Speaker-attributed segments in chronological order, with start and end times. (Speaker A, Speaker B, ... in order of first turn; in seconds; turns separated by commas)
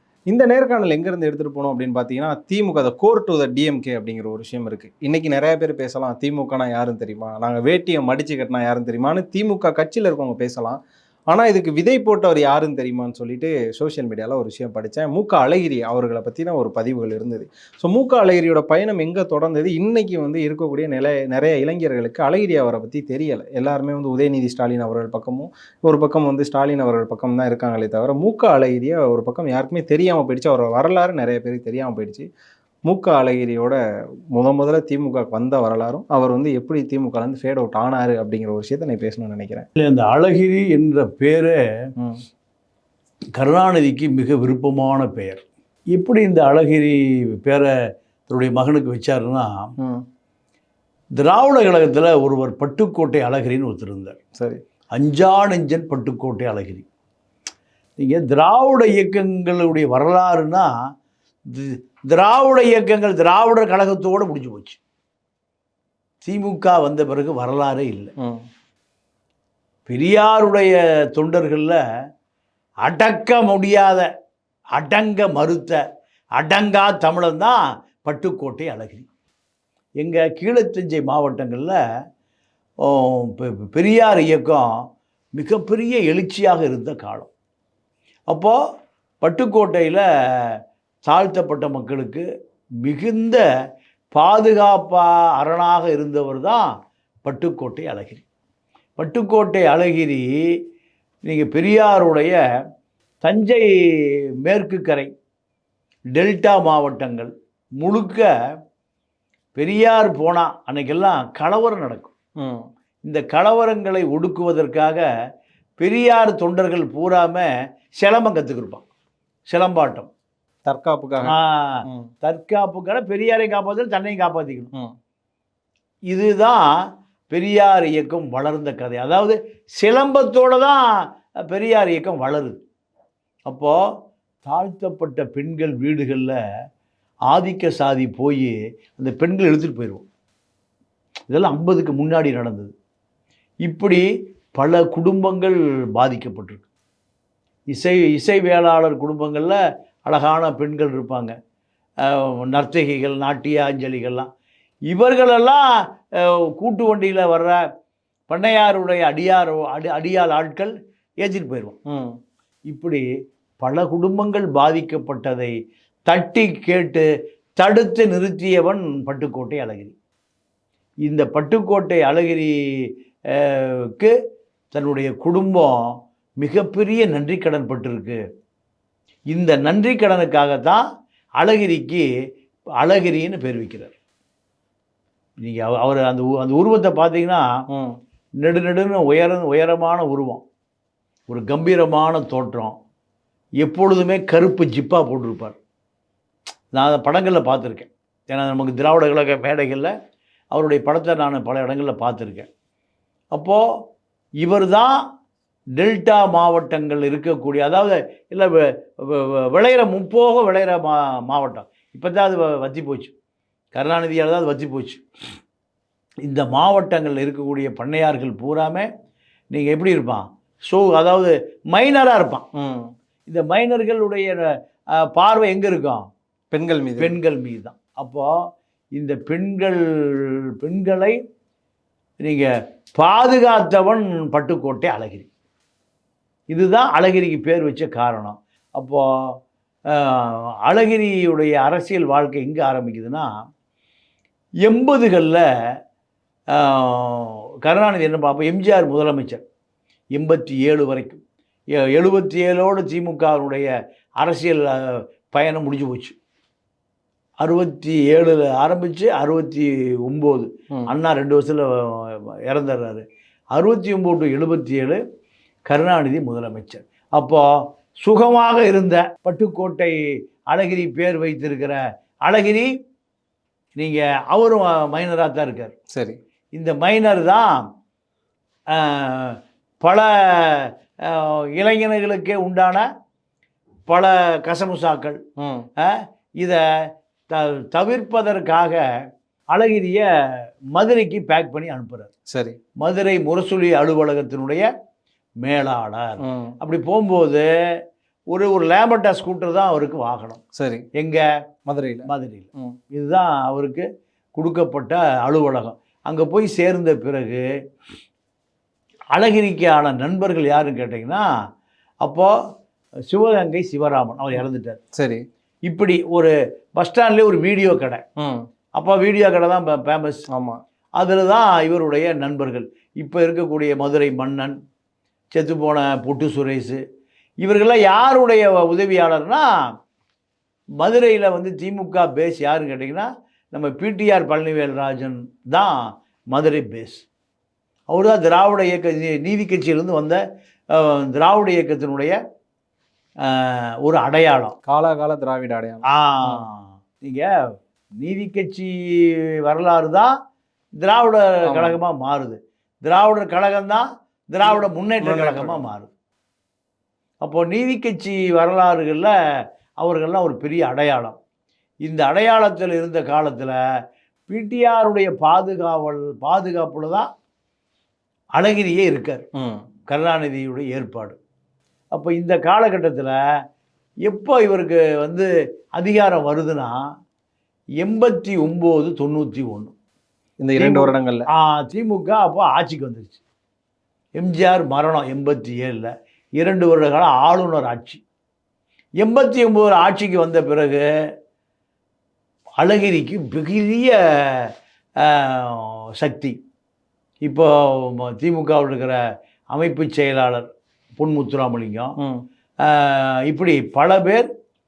Speaker A: 0.3-10.8, Speaker A: 11.3-32.3, Speaker A: 32.9-33.8, Speaker A: 34.3-39.7, Speaker B: 39.8-41.6, Speaker B: 43.4-47.7, Speaker B: 48.3-49.7, Speaker B: 51.2-54.2, Speaker B: 54.9-56.9, Speaker B: 58.0-60.7, Speaker B: 61.5-64.8, Speaker B: 66.2-68.1, Speaker B: 69.9-71.8, Speaker B: 72.8-74.1, Speaker B: 74.8-75.8, Speaker B: 76.4-79.1, Speaker B: 80.0-81.8, Speaker B: 82.8-84.7, Speaker B: 85.4-87.3, Speaker B: 88.3-88.6, Speaker B: 89.2-92.2, Speaker B: 92.8-93.4, Speaker B: 94.1-96.7, Speaker B: 97.2-98.2, Speaker B: 99.0-100.3, Speaker B: 101.3-102.4, Speaker B: 103.2-103.7, Speaker B: 104.5-105.1, Speaker B: 106.2-108.3, Speaker B: 109.6-112.1, Speaker A: 112.4-112.7, Speaker B: 113.0-115.0, Speaker B: 115.8-118.8, Speaker B: 119.5-120.1, Speaker A: 120.7-121.4, Speaker B: 121.2-124.7, Speaker B: 126.1-126.7, Speaker B: 127.3-132.6, Speaker B: 133.5-133.8, Speaker B: 134.4-136.4, Speaker B: 137.3-140.1, Speaker B: 141.3-142.7, Speaker B: 143.7-144.1, Speaker B: 144.6-146.7, Speaker B: 147.7-151.3, Speaker B: 152.0-154.3, Speaker B: 154.9-155.7, Speaker B: 156.2-157.6, Speaker B: 158.3-161.8, Speaker A: 161.9-162.2, Speaker B: 162.7-163.0, Speaker B: 163.6-165.5, Speaker B: 166.1-167.1, Speaker B: 167.6-169.9, Speaker B: 171.1-174.1, Speaker B: 174.7-178.2, Speaker B: 179.3-180.8, Speaker B: 181.4-182.1, Speaker B: 182.8-183.9, Speaker B: 185.4-187.5, Speaker A: 187.7-188.0, Speaker B: 188.4-190.4, Speaker B: 191.3-192.8, Speaker B: 193.6-195.6, Speaker B: 196.7-199.9, Speaker B: 200.5-202.5, Speaker B: 203.3-203.6, Speaker B: 204.4-205.0, Speaker B: 205.8-213.1, Speaker B: 213.8-215.0, Speaker B: 216.2-218.9, Speaker B: 219.5-222.5, Speaker A: 222.6-222.9, Speaker B: 223.3-224.4, Speaker B: 225.1-226.1, Speaker A: 226.5-227.1, Speaker B: 227.0-228.3, Speaker B: 229.0-231.2, Speaker B: 232.2-235.3, Speaker B: 236.5-239.0, Speaker B: 239.9-243.3, Speaker B: 244.7-245.4, Speaker B: 246.5-249.4, Speaker B: 250.2-251.2, Speaker B: 251.7-253.7, Speaker B: 254.2-256.1, Speaker B: 257.4-265.0, Speaker B: 265.7-267.4, Speaker B: 268.0-270.0, Speaker B: 270.5-272.7, Speaker B: 273.8-275.7, Speaker A: 275.9-276.2, Speaker B: 276.6-277.7, Speaker B: 278.7-282.8, Speaker B: 283.9-285.2, Speaker A: 285.4-285.7, Speaker B: 285.8-286.6, Speaker B: 287.3-288.8, Speaker B: 289.5-290.1, Speaker B: 290.7-292.1, Speaker A: 292.3-292.6, Speaker B: 292.8-294.7, Speaker B: 295.4-297.5, Speaker A: 296.2-296.6, Speaker B: 298.3-300.4, Speaker A: 300.6-300.9, Speaker B: 301.0-301.2, Speaker A: 301.7-302.8, Speaker B: 302.1-307.4, Speaker B: 309.1-311.3, Speaker B: 312.0-312.3, Speaker B: 313.1-314.8, Speaker A: 314.9-315.2, Speaker B: 315.7-318.0, Speaker A: 318.2-318.4, Speaker B: 318.8-320.2, Speaker A: 320.3-320.6, Speaker B: 321.0-324.6, Speaker B: 325.3-326.8, Speaker B: 327.4-329.5, Speaker B: 330.8-337.1, Speaker B: 337.9-340.2, Speaker B: 340.7-342.2, Speaker B: 343.2-344.6, Speaker A: 344.7-346.4, Speaker B: 345.9-347.3, Speaker B: 348.0-350.1, Speaker B: 350.8-355.9, Speaker A: 351.5-351.8, Speaker A: 354.4-355.7, Speaker B: 357.2-359.1, Speaker B: 359.8-361.2, Speaker B: 361.9-363.6, Speaker B: 364.3-367.1, Speaker B: 368.4-369.3, Speaker A: 369.4-369.6, Speaker B: 369.9-371.2, Speaker B: 371.9-373.2, Speaker B: 374.1-376.8, Speaker B: 377.8-379.7, Speaker A: 380.4-381.2, Speaker B: 380.6-383.2, Speaker B: 384.2-388.0, Speaker B: 389.0-390.8, Speaker B: 392.6-396.4, Speaker B: 397.3-399.0, Speaker B: 399.5-400.5, Speaker B: 401.0-401.9, Speaker B: 402.6-404.3